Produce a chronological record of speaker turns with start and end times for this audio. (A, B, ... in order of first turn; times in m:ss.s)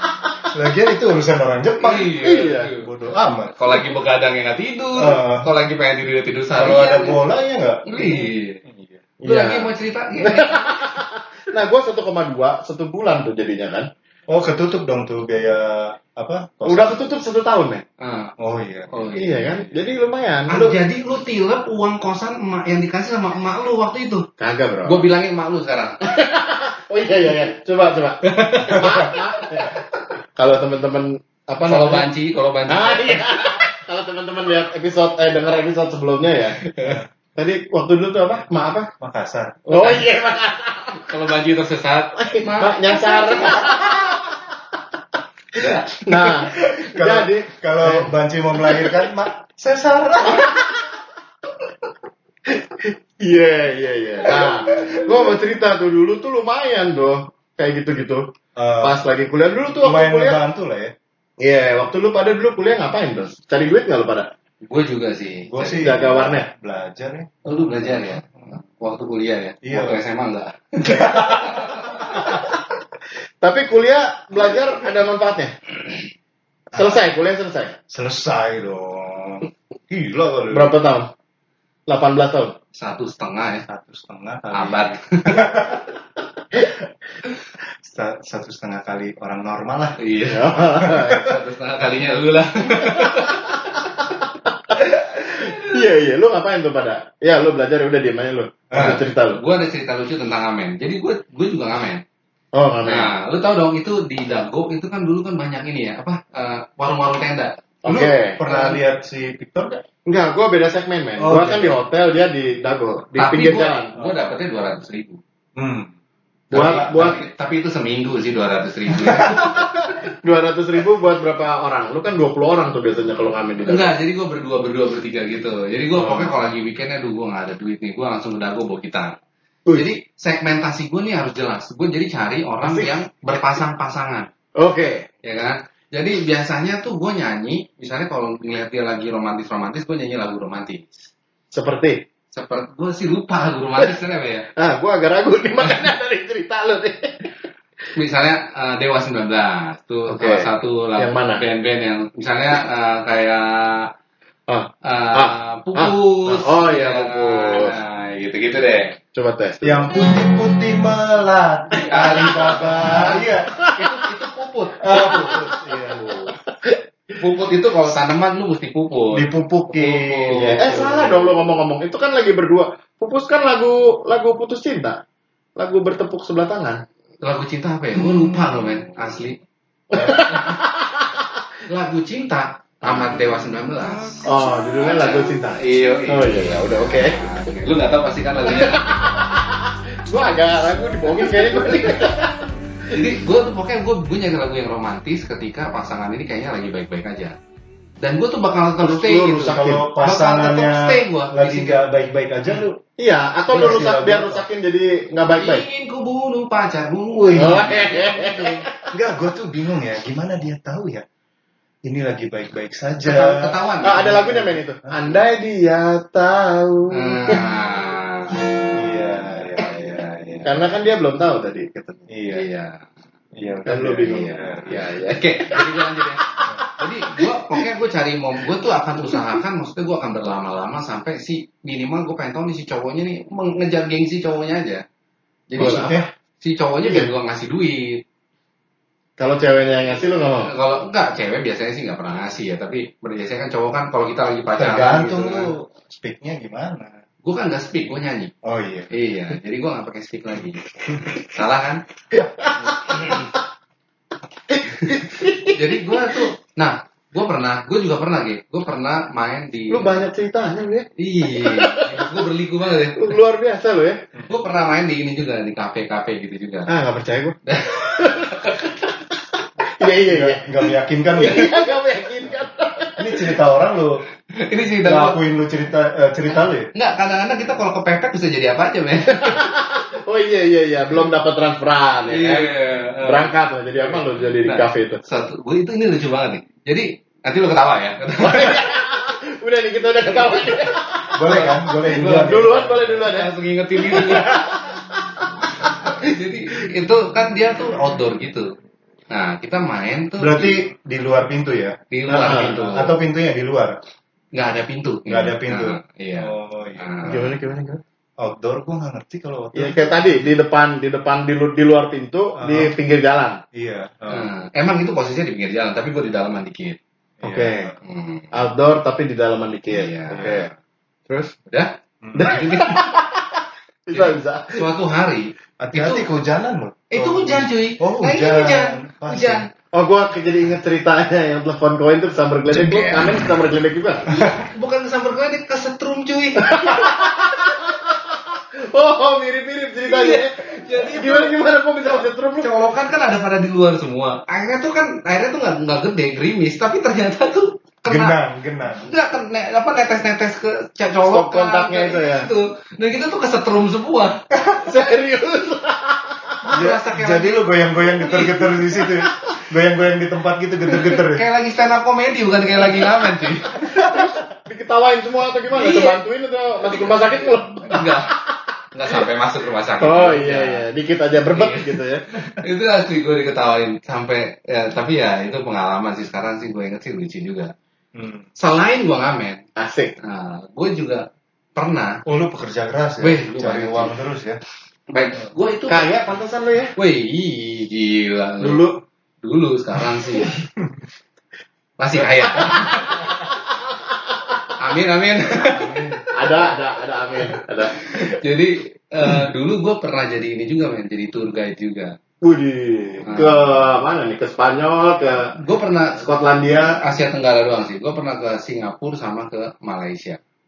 0:00.5-0:02.2 A
0:01.8-0:02.9 B
0:02.2-0:02.7 C
0:02.8-0:03.6 A
0:03.6-0:07.2 B
0:05.0-0:05.5 A
0:06.6-0:09.0 A
0:07.9-0:08.6 B
0:09.2-0:13.9 C
0:09.2-0:10.8 B
0:14.3-0:17.1 A
0:16.7-0:17.8 C
0:18.0-0:18.3 B
0:18.4-0:19.7 A
0:18.9-0:19.5 B
0:19.2-0:20.6 C
0:20.5-0:24.3 B
0:20.5-0:20.8 A
0:24.4-0:25.1 C
0:24.8-0:26.1 B
0:26.0-0:29.8 C
0:28.2-0:29.1 B
0:28.7-0:29.0 A
0:30.4-0:32.1 C
0:31.6-0:33.6 B
0:32.7-0:36.7 C
0:36.6-0:37.0 B
0:37.4-0:38.9 C
0:39.0-0:39.7 A
0:39.7-0:41.1 C
0:39.7-0:40.1 B
0:41.0-0:43.7 B
0:42.2-0:44.4 C
0:45.6-0:45.9 B
0:45.6-0:48.1 C
0:46.1-0:50.6 A
0:48.6-0:49.1 C
0:50.3-0:50.8 C
0:52.5-0:58.3 C
0:54.4-0:55.2 A
0:58.6-0:59.0 A
0:58.8-1:00.4 C
0:59.8-1:00.9 A
1:01.4-1:04.3 C
1:04.6-1:05.9 B
1:05.5-1:08.3 A
1:05.8-1:06.5 C
1:07.5-1:12.2 B
1:09.6-1:10.0 A
1:10.8-1:12.5 A
1:13.4-1:15.7 C
1:16.7-1:17.8 C
1:17.9-1:20.8 A
1:20.5-1:21.1 C
1:21.9-1:22.6 C
1:22.7-1:23.6 B
1:23.7-1:25.9 A
1:24.5-1:25.5 B
1:27.6-1:30.0 A
1:30.0-1:33.6 B
1:30.3-1:31.3 C
1:30.6-1:31.3 A
1:34.7-1:39.4 C
1:38.7-1:39.0 A
1:38.7-1:42.0 B
1:42.5-1:43.1 C
1:42.8-1:47.5 B
1:47.8-1:48.4 C
1:47.9-1:49.8 A
1:50.1-1:53.9 C
1:51.2-1:51.8 A
1:53.2-1:55.2 B
1:55.6-1:55.9 A
1:56.5-1:57.1 A
1:56.5-1:59.8 B
1:56.5-1:57.2 C
1:59.1-1:59.4 A
1:59.3-2:03.9 C
2:03.7-2:09.2 B
2:06.0-2:06.3 C
2:09.7-2:14.3 B
2:14.6-2:15.1 C
2:15.2-2:21.1 B
2:21.5-2:22.0 C
2:22.3-2:24.5 B
2:24.6-2:27.3 C
2:28.0-2:33.9 B
2:30.1-2:31.4 C
2:34.5-2:37.8 C
2:34.8-2:39.0 B
2:39.1-2:39.9 C
2:39.6-2:43.7 A
2:41.7-2:45.4 B
2:42.8-2:43.8 C
2:44.8-2:46.3 A
2:44.9-2:46.8 C
2:47.2-2:51.0 B
2:49.1-2:51.4 A
2:50.4-2:55.0 C
2:55.6-2:56.8 C
2:57.2-2:59.4 B
2:59.9-3:01.3 C
2:59.9-3:00.3 A
3:00.0-3:00.6 B
3:01.7-3:08.8 B
3:02.9-3:03.1 C
3:04.2-3:07.3 C
3:08.4-3:12.4 C
3:12.9-3:17.4 B
3:18.0-3:21.9 B
3:18.8-3:19.9 C
3:19.4-3:22.8 A
3:23.0-3:25.6 C
3:23.5-3:24.4 A
3:23.5-3:24.0 B
3:25.2-3:28.7 B
3:27.1-3:27.9 A
3:27.4-3:28.9 C
3:28.9-3:31.1 A
3:31.8-3:33.6 A
3:33.0-3:34.3 B
3:33.8-3:37.4 C
3:34.1-3:35.1 A
3:36.9-3:38.4 B
3:38.8-3:40.6 A
3:39.6-3:40.0 B
3:40.4-3:42.1 C
3:42.1-3:42.4 A
3:42.3-3:42.9 B
3:43.4-3:44.8 A
3:43.6-3:47.2 C
3:44.0-3:54.8 B
3:55.5-3:58.0 B
3:55.6-3:56.1 A
3:55.6-3:55.9 C
3:56.8-3:57.1 C
3:59.2-4:00.5 C
4:00.2-4:05.5 B
4:04.6-4:07.0 A
4:07.2-4:08.3 B
4:08.4-4:08.9 A
4:08.9-4:11.8 B
4:12.5-4:13.2 C
4:12.7-4:13.3 B
4:14.5-4:15.5 C
4:15.5-4:20.0 B
4:19.7-4:22.2 C
4:21.0-4:23.1 B
4:23.0-4:24.0 C
4:24.3-4:26.7 B
4:26.7-4:28.8 C
4:27.5-4:28.7 B
4:29.6-4:33.4 C
4:30.0-4:31.7 A
4:33.0-4:34.0 A
4:34.3-4:35.2 B
4:34.8-4:36.7 A
4:36.3-4:39.5 B
4:39.2-4:45.0 C
4:42.1-4:48.6 B
4:48.2-4:56.1 C
4:51.1-4:53.1 A
4:51.3-4:52.5 B
4:53.0-4:54.5 B
4:55.6-4:58.5 B
4:59.1-5:00.6 B
5:00.2-5:03.8 A
5:01.9-5:03.0 B
5:02.2-5:02.8 C
5:04.3-5:07.3 B
5:05.1-5:07.1 A
5:07.0-5:07.8 C
5:08.2-5:10.3 A
5:09.6-5:13.4 C
5:12.4-5:12.7 A
5:13.5-5:14.3 A
5:14.1-5:16.8 B
5:17.2-5:17.8 A
5:17.2-5:17.7 C
5:17.8-5:18.3 B
5:18.3-5:20.5 C
5:19.7-5:20.5 B
5:21.1-5:21.4 C
5:21.5-5:22.9 B
5:22.0-5:22.4 A
5:22.2-5:24.6 C
5:23.9-5:26.1 B
5:25.6-5:29.5 A
5:26.9-5:29.5 B
5:29.7-5:34.1 C
5:32.5-5:33.3 A
5:34.1-5:36.9 B
5:34.1-5:34.4 A
5:36.4-5:42.5 C
5:39.8-5:41.3 B
5:42.4-5:48.2 B
5:47.9-5:48.8 A
5:48.8-5:54.2 B
5:51.1-5:52.3 C
5:54.3-5:54.6 A
5:54.6-5:56.4 C
5:56.4-5:57.4 B
5:56.5-6:01.2 A
5:58.0-5:58.3 B
6:00.7-6:03.9 B
6:03.6-6:04.2 A
6:03.8-6:08.4 C
6:05.5-6:06.0 B
6:06.7-6:08.2 B
6:08.7-6:10.6 B
6:09.8-6:12.0 C
6:11.3-6:17.5 B
6:18.0-6:18.2 A
6:18.4-6:19.4 B
6:19.6-6:19.9 C
6:20.0-6:22.0 B
6:22.1-6:24.4 A
6:23.0-6:24.0 B
6:24.9-6:25.9 B
6:25.7-6:26.7 C
6:26.8-6:28.7 B
6:28.4-6:28.8 C
6:29.2-6:30.4 B
6:31.8-6:33.1 B
6:32.2-6:34.5 C
6:34.6-6:36.0 B
6:35.7-6:37.9 C
6:37.8-6:42.0 B
6:42.2-6:45.4 C
6:43.0-6:43.4 B
6:45.4-6:50.2 B
6:46.0-6:46.8 C